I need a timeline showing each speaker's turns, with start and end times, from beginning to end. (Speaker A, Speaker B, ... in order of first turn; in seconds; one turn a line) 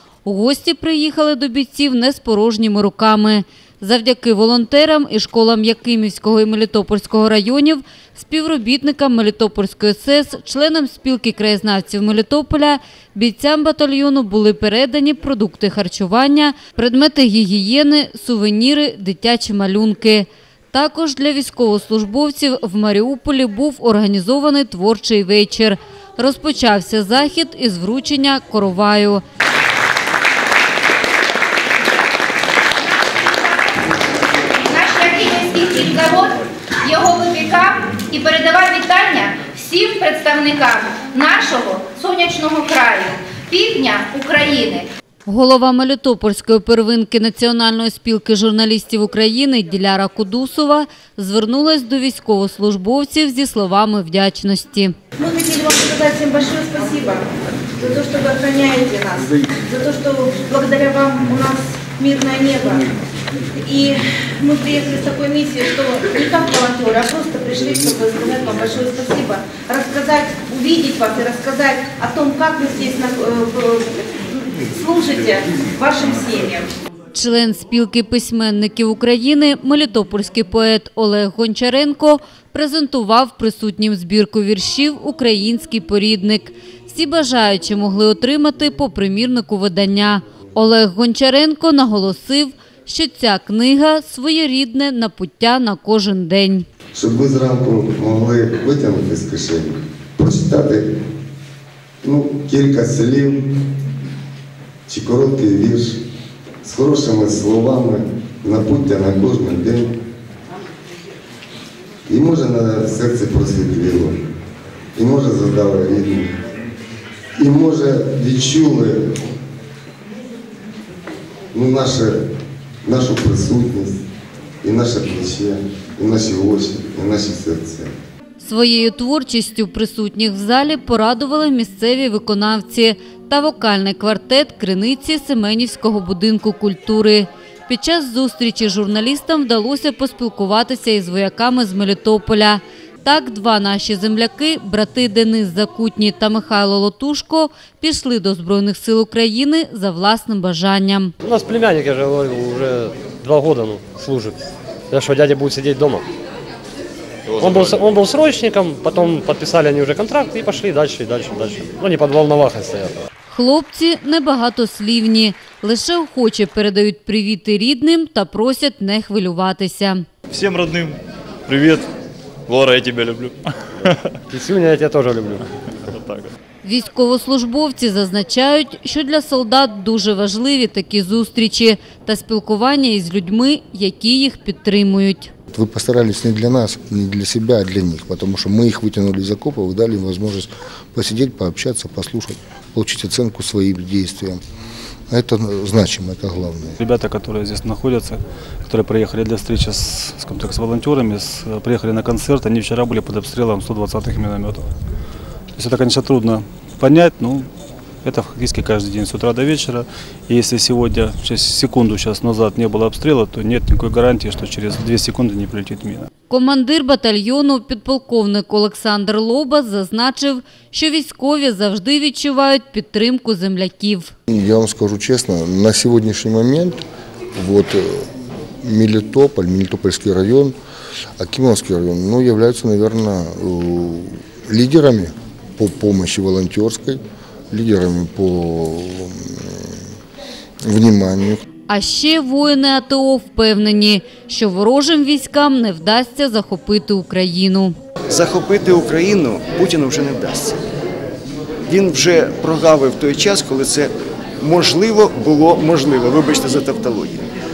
Speaker A: 0.2-29.2
Speaker B: 33.2-34.0
Speaker B: 34.6-44.9
Speaker A: 45.3-54.9
Speaker C: 55.2-57.2
Speaker C: 57.8-62.9
Speaker C: 63.6-74.0
Speaker C: 74.6-76.7
Speaker A: 77.1-96.6
Speaker D: 96.9-100.9
Speaker D: 102.0-103.4
Speaker D: 104.9-106.0
Speaker D: 106.6-109.9
Speaker D: 112.1-114.2
Speaker D: 115.0-116.3
Speaker D: 117.3-119.0
Speaker D: 121.5-122.2
Speaker D: 122.8-124.0
Speaker D: 124.6-127.9
Speaker A: 128.4-151.1
Speaker E: 151.2-154.4
Speaker E: 154.9-156.1
Speaker F: 157.3-157.8
Speaker E: 157.4-163.0
Speaker A: 163.3-170.0
Speaker F: 170.3-171.9
Speaker F: 172.5-173.5
Speaker E: 174.3-175.4
Speaker A: 176.6-185.3
Speaker G: 185.5-194.4
Speaker G: 195.1-196.8
Speaker H: 196.8-204.7
Speaker H: 205.6-207.5
Speaker H: 208.0-216.1
Speaker A: 216.3-224.1
Speaker G: 224.3-226.8
Speaker G: 227.3-228.1
Speaker G: 228.6-230.5
Speaker G: 231.2-239.8
Speaker G: 240.6-241.4
Speaker A: 241.7-247.8
Speaker I: 248.1-250.6
Speaker I: 251.7-257.3